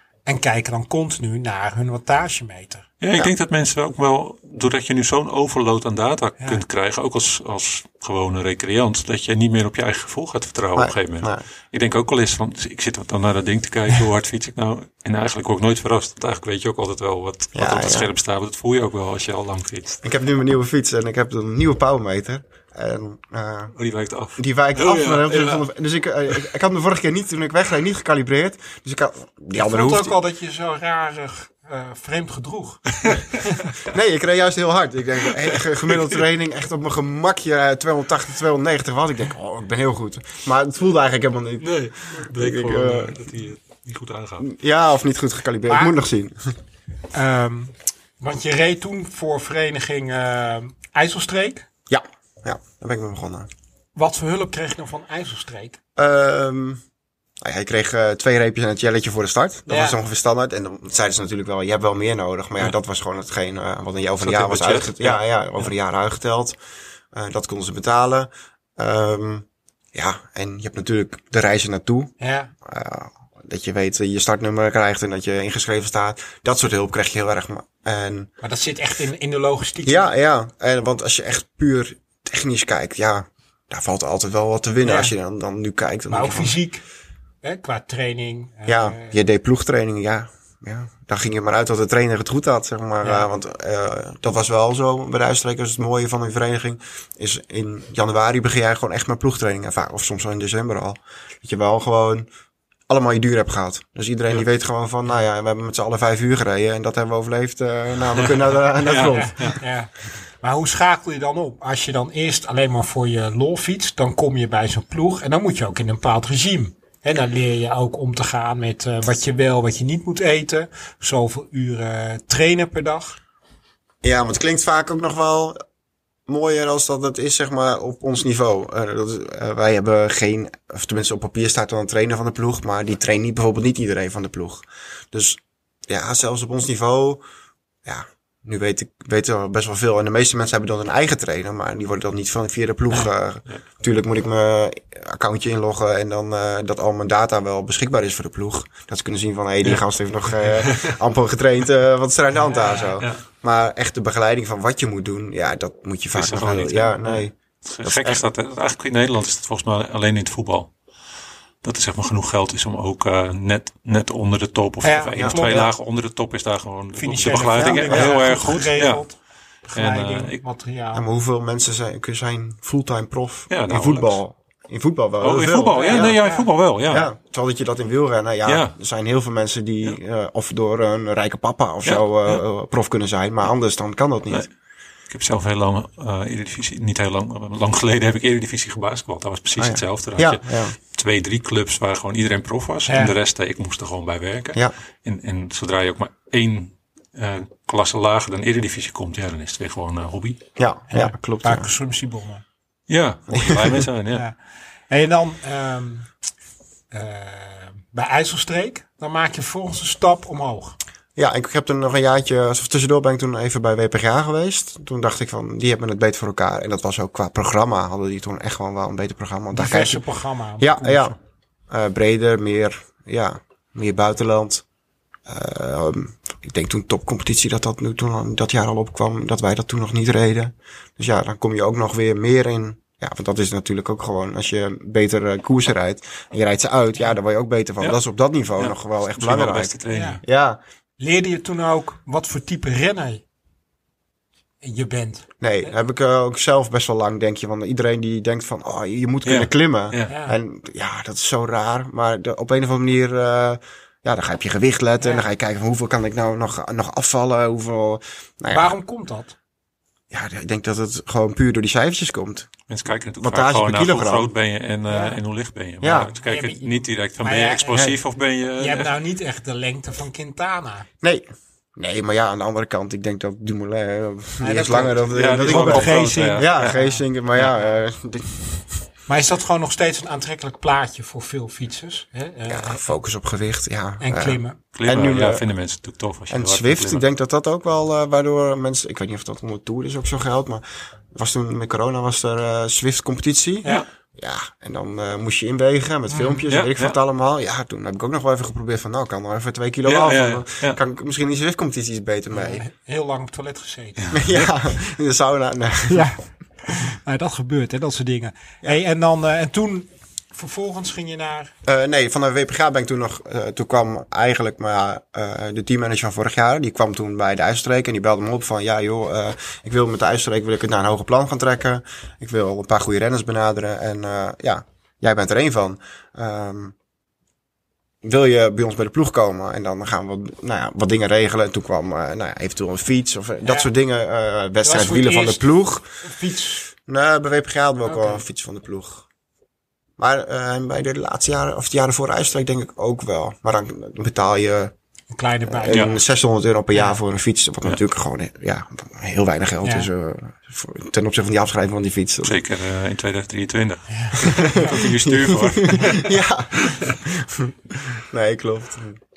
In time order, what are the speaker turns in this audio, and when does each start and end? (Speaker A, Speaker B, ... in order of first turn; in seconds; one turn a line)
Speaker A: 0.2-2.9
Speaker B: 3.0-20.0
Speaker C: 10.8-11.4
Speaker C: 17.5-18.1
Speaker C: 20.0-23.7
Speaker B: 23.8-25.6
Speaker C: 24.4-30.1
Speaker A: 29.6-33.7
Speaker C: 33.8-43.3
Speaker B: 35.9-36.2
Speaker B: 41.6-44.5
Speaker C: 44.4-46.4
Speaker A: 45.7-46.0
Speaker A: 47.1-51.7
Speaker C: 51.9-53.5
Speaker A: 54.0-55.8
Speaker C: 56.0-56.8
Speaker C: 57.4-66.6
Speaker A: 59.7-60.0
Speaker B: 64.2-65.2
Speaker C: 67.1-72.1
Speaker A: 72.2-72.5
Speaker C: 72.6-78.3
Speaker A: 78.4-80.1
Speaker C: 79.8-86.5
Speaker A: 84.8-85.1
Speaker A: 86.1-86.8
Speaker A: 87.4-89.2
Speaker C: 88.7-102.3
Speaker A: 93.0-93.3
Speaker C: 102.9-109.5
Speaker B: 108.1-109.6
Speaker A: 109.1-123.2
Speaker C: 124.0-125.6
Speaker C: 126.3-137.2
Speaker C: 137.8-158.2
Speaker B: 150.3-150.9
Speaker A: 152.5-152.9
Speaker B: 156.1-160.7
Speaker B: 161.6-169.0
Speaker A: 164.8-165.7
Speaker C: 165.2-165.7
Speaker A: 167.0-169.2
Speaker C: 167.6-168.3
Speaker A: 169.7-171.0
Speaker B: 169.7-170.4
Speaker C: 170.9-176.2
Speaker B: 173.5-174.2
Speaker B: 175.2-177.1
Speaker A: 175.7-176.5
Speaker C: 176.9-184.5
Speaker B: 178.4-178.7
Speaker B: 181.8-182.4
Speaker B: 185.1-200.4
Speaker C: 189.6-190.7
Speaker A: 192.8-193.1
Speaker C: 200.6-201.7
Speaker A: 200.9-202.4
Speaker B: 202.9-204.2
Speaker C: 203.3-203.8
Speaker A: 204.9-206.1
Speaker A: 206.9-210.8
Speaker C: 211.2-220.0
Speaker A: 219.5-221.1
Speaker C: 220.6-221.2
Speaker C: 221.7-224.6
Speaker C: 225.3-240.6
Speaker B: 238.6-240.2
Speaker A: 239.9-240.2
Speaker A: 241.0-243.2
Speaker A: 244.6-245.3
Speaker C: 245.4-258.7
Speaker B: 249.2-250.1
Speaker A: 250.1-250.4
Speaker A: 255.0-255.3
Speaker A: 258.5-259.3
Speaker C: 260.1-262.5
Speaker B: 262.7-268.9
Speaker C: 263.2-264.3
Speaker A: 264.9-265.2
Speaker C: 265.8-266.1
Speaker A: 266.1-268.0
Speaker A: 268.6-270.9
Speaker C: 271.8-278.6
Speaker A: 274.4-277.0
Speaker B: 275.1-276.8
Speaker A: 279.1-282.8
Speaker C: 282.5-285.4
Speaker A: 284.0-284.6
Speaker B: 284.7-287.0
Speaker C: 286.3-302.6
Speaker A: 296.1-296.4
Speaker B: 296.5-297.0
Speaker B: 299.8-300.8
Speaker A: 302.3-304.2
Speaker B: 304.0-304.5
Speaker C: 304.1-306.1
Speaker A: 305.9-311.5
Speaker C: 311.6-326.7
Speaker C: 328.0-335.9
Speaker A: 334.6-335.4
Speaker A: 336.0-336.7
Speaker C: 336.9-339.0
Speaker A: 337.8-338.2
Speaker C: 340.0-344.7
Speaker A: 345.1-346.0
Speaker C: 345.5-352.4
Speaker B: 345.7-345.9
Speaker A: 346.7-347.0
Speaker A: 349.6-349.9
Speaker B: 352.2-356.9
Speaker A: 353.9-354.8
Speaker C: 354.2-359.0